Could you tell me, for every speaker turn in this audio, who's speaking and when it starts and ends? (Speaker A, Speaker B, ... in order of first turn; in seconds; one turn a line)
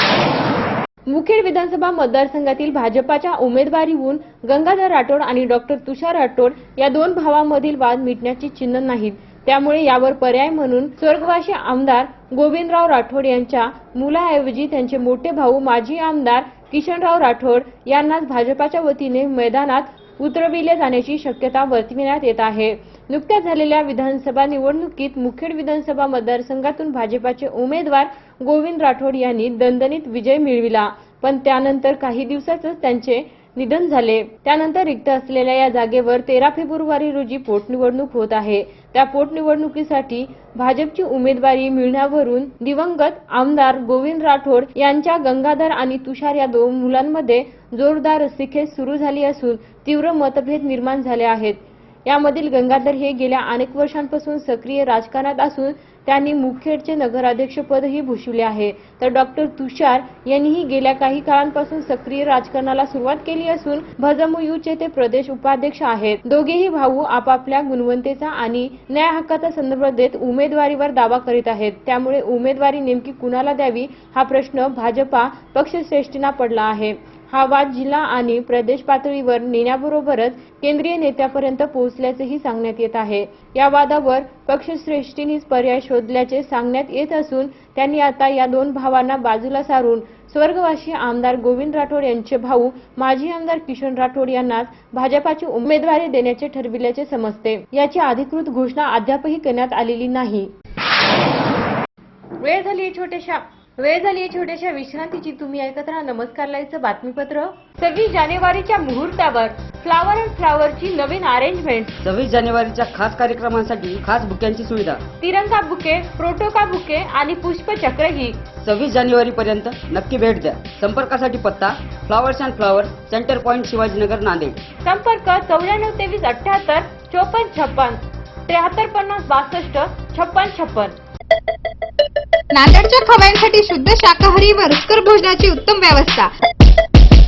Speaker A: 1.1-100.5
Speaker A: 102.4-112.0
Speaker B: 112.0-115.0
Speaker A: 115.2-118.4
Speaker B: 118.6-124.6
Speaker A: 124.8-130.9
Speaker C: 132.5-136.3